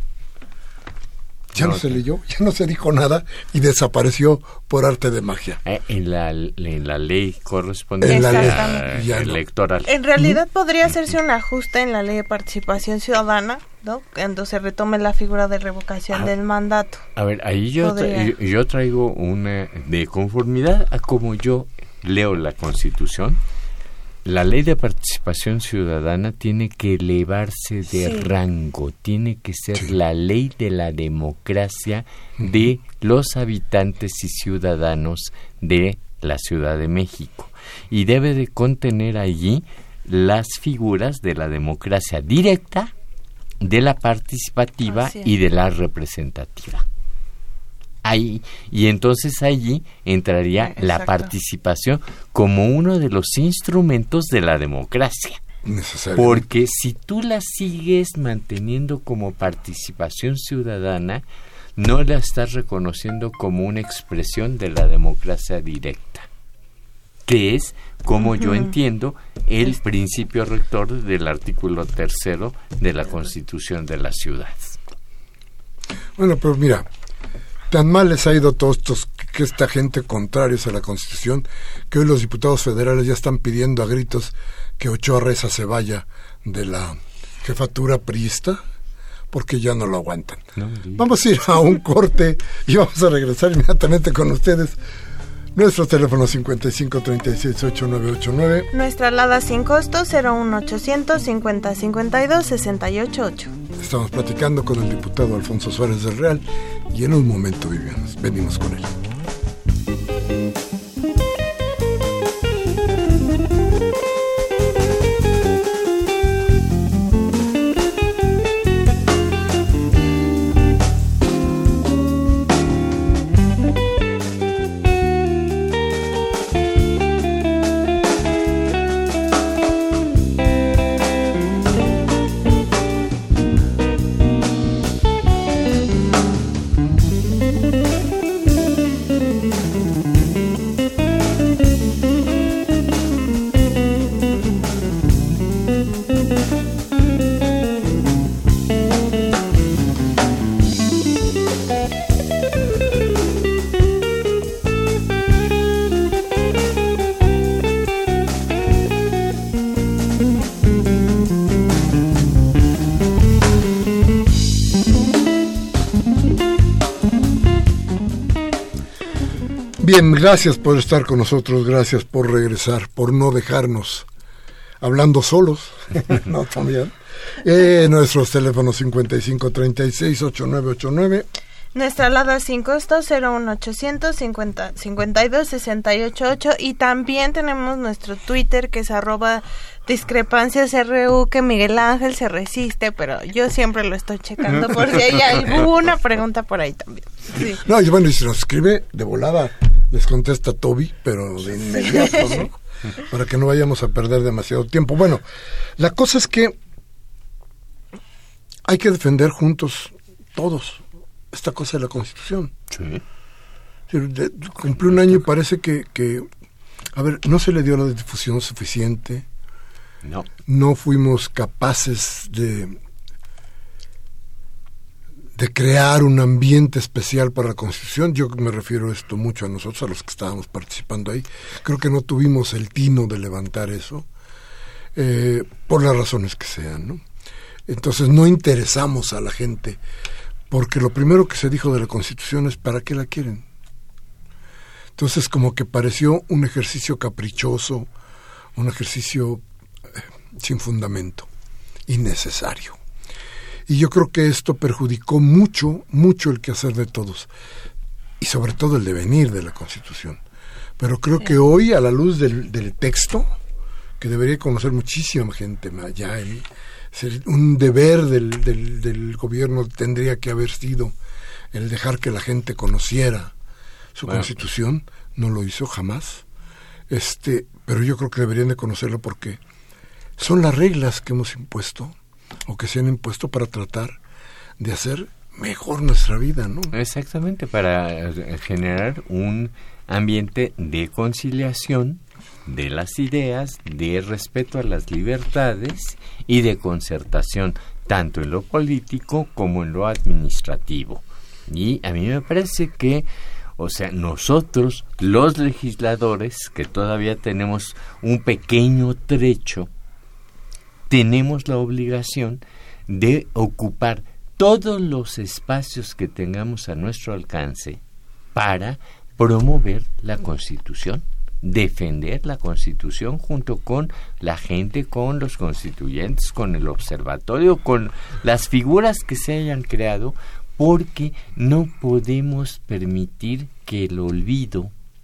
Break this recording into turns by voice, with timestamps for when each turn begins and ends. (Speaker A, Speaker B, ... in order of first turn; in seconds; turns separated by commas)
Speaker A: 1.5-5.6, Speaker B: 1.6-2.0, Speaker B: 5.6-9.9, Speaker A: 8.0-9.4, Speaker C: 8.1-8.9, Speaker C: 9.8-17.0, Speaker B: 17.1-23.4, Speaker C: 17.8-18.3, Speaker B: 24.2-42.9, Speaker C: 27.9-28.3, Speaker A: 32.4-32.6, Speaker B: 43.6-46.9, Speaker C: 44.9-45.3, Speaker B: 48.0-55.4, Speaker C: 50.6-51.3, Speaker A: 55.6-56.4, Speaker B: 56.1-61.2, Speaker B: 61.8-66.3, Speaker B: 67.2-74.8, Speaker C: 68.4-68.7, Speaker A: 76.2-76.8, Speaker A: 77.7-88.6, Speaker A: 89.3-94.8, Speaker B: 90.5-91.0, Speaker A: 95.5-98.7, Speaker C: 98.7-103.5, Speaker A: 103.8-109.0, Speaker A: 169.8-174.1, Speaker A: 174.8-181.3, Speaker C: 181.7-197.6, Speaker A: 197.5-205.2, Speaker A: 205.8-206.6, Speaker A: 208.7-212.5, Speaker B: 212.7-213.0, Speaker A: 213.9-216.3, Speaker B: 214.8-215.2, Speaker A: 216.9-219.2, Speaker B: 220.0-220.3, Speaker A: 220.5-222.8, Speaker A: 225.3-234.1, Speaker A: 234.9-237.0, Speaker A: 237.7-239.8, Speaker A: 240.5-243.4, Speaker A: 244.9-247.9, Speaker A: 248.5-251.3, Speaker A: 251.9-252.8, Speaker A: 253.7-257.3, Speaker A: 258.2-260.2, Speaker A: 260.8-263.3, Speaker A: 264.0-270.9, Speaker A: 271.5-273.3, Speaker A: 273.9-276.2, Speaker B: 274.0-274.3, Speaker A: 276.9-279.4, Speaker A: 280.2-281.9, Speaker A: 282.5-284.0, Speaker A: 284.6-286.7, Speaker B: 286.7-309.7, Speaker B: 310.9-317.8, Speaker B: 318.3-334.7